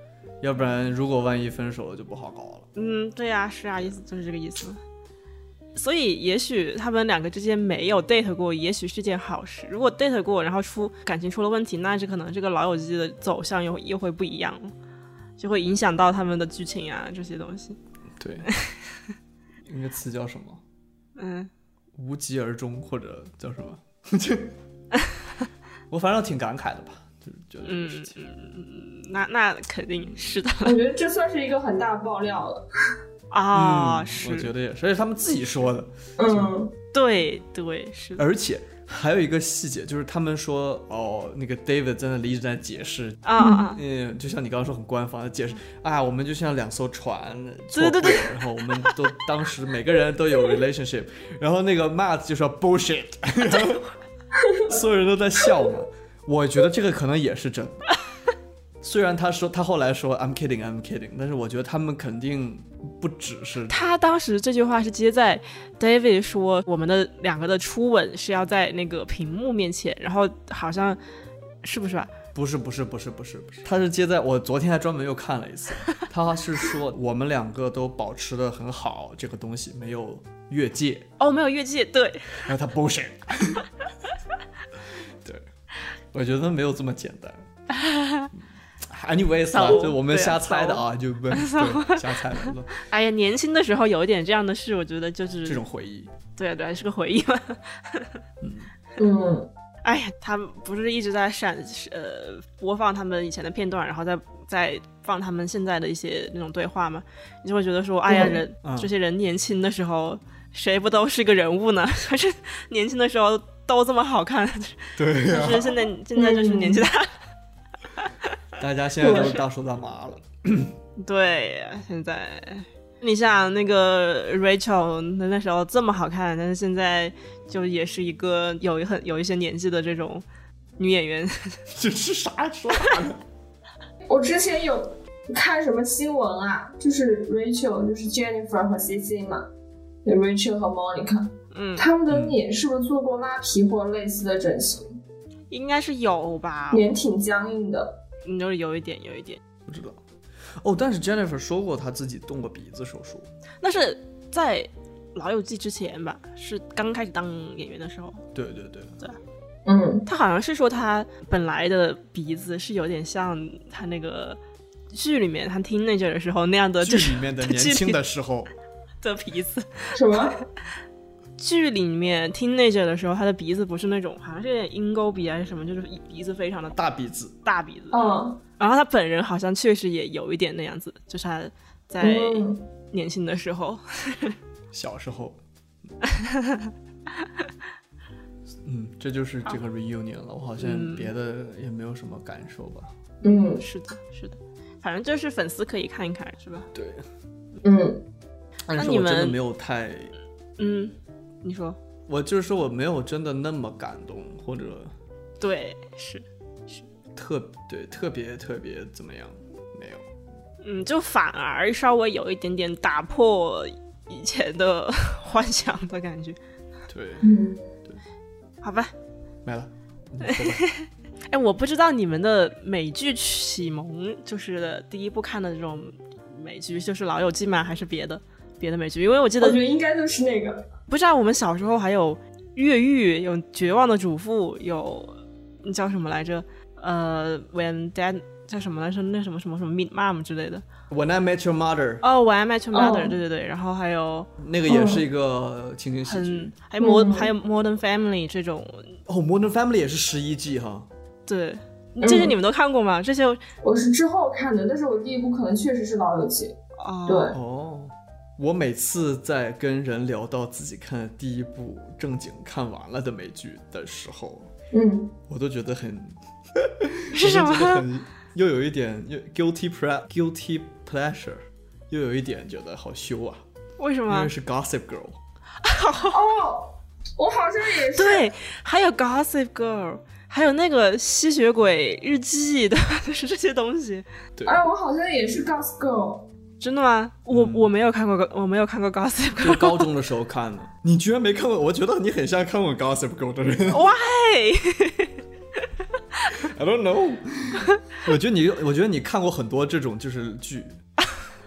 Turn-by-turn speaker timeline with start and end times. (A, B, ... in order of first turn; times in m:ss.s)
0:00.4-0:02.7 A
0:02.7-0:04.8 B
0:05.7-0:14.7 B
0:15.4-0:17.8 B
0:18.2-0:18.5 A
0:18.5-0:18.8 B
0:19.6-0:20.6 A
0:21.2-0:21.5 B
0:22.0-0:24.5 A
0:25.9-0:28.2 A
0:27.6-0:30.8 B
0:30.6-0:32.6 C
0:33.3-0:34.5 B
0:33.5-0:36.6 A
0:36.2-0:36.7 C
0:36.9-0:38.2 B
0:38.2-0:53.8 A
0:43.2-0:43.8 B
0:43.4-0:43.7 C
0:47.7-0:49.0 B
0:54.6-0:57.8 A
0:58.8-1:03.8 A
1:03.7-1:11.0 B
1:11.6-1:12.1 B
1:12.3-1:21.1 A
1:21.2-1:22.5 B
1:22.4-1:23.7 A
1:25.2-1:25.5 A
1:26.1-1:27.5 A
1:27.7-1:28.3 B
1:28.3-1:32.7 A
1:29.5-1:35.6 B
1:35.4-1:36.1 A
1:36.3-1:38.2 B
1:38.4-1:38.7 A
1:39.0-1:39.5 C
1:39.8-1:57.2 B
1:48.1-1:48.4 C
1:48.6-1:48.9 A
1:55.0-1:55.8 A
1:56.2-1:56.9 C
1:58.0-1:58.3 B
1:58.6-2:00.7 A
1:59.0-1:59.4 C
2:01.0-2:10.2 B
2:10.8-2:11.6 B
2:11.7-2:13.2 A
2:14.1-2:19.5 C
2:20.0-2:25.0 C
2:21.5-2:21.9 B
2:22.1-2:22.4 A
2:25.5-2:27.0 B
2:26.7-2:28.0 C
2:28.2-2:29.4 B
2:29.6-2:30.0 A
2:30.6-2:33.3 A
2:33.6-2:38.2 B
2:38.3-2:39.0 A
2:39.6-2:40.0 C
2:40.0-2:44.4 B
2:44.9-2:48.0 B
2:46.8-2:48.5 A
2:49.0-2:50.4 B
2:49.9-2:50.4 C
2:51.4-2:56.8 B
2:56.7-2:57.4 A
2:57.4-3:04.4 B
2:57.9-2:58.4 C
3:02.0-3:02.6 C
3:04.7-3:05.4 A
3:06.1-3:06.7 B
3:08.6-3:12.9 A
3:10.6-3:11.1 B
3:13.2-3:13.6 C
3:13.6-3:16.7 B
3:16.7-3:17.0 A
3:17.6-3:18.0 C
3:18.6-3:20.1 A
3:18.7-3:19.4 B
3:20.6-3:21.8 B
3:22.1-3:24.9 A
3:25.4-3:26.9 B
3:27.1-3:30.0 A
3:30.6-3:36.4 B
3:36.9-3:37.3 A
3:37.2-3:37.7 C
3:38.6-3:38.9 B
3:39.4-3:40.6 A
3:40.2-3:49.6 B
3:49.4-3:50.7 C
3:50.9-4:00.6 B
4:00.9-4:02.0 A
4:02.0-4:04.3 B
4:02.7-4:03.2 C
4:04.4-4:06.5 A
4:04.7-4:05.0 C
4:06.0-4:09.0 B
4:06.8-4:07.3 C
4:09.1-4:10.9 A
4:11.3-4:13.4 B
4:12.0-4:12.4 C
4:13.6-4:17.4 C
4:16.8-4:17.3 B
4:17.3-4:24.5 A
4:24.7-4:25.1 C
4:25.3-4:33.4 A
4:27.1-4:27.8 B
4:33.8-4:34.3 B
4:34.1-4:35.2 A
4:35.6-4:36.2 B
4:36.1-4:38.3 C
4:37.9-4:44.0 B
4:44.4-4:44.6 A
4:44.4-4:46.3 C
4:46.6-4:49.9 B
4:47.3-4:47.7 A
4:49.4-4:53.9 A
4:53.7-4:55.2 B
4:56.4-5:00.8 A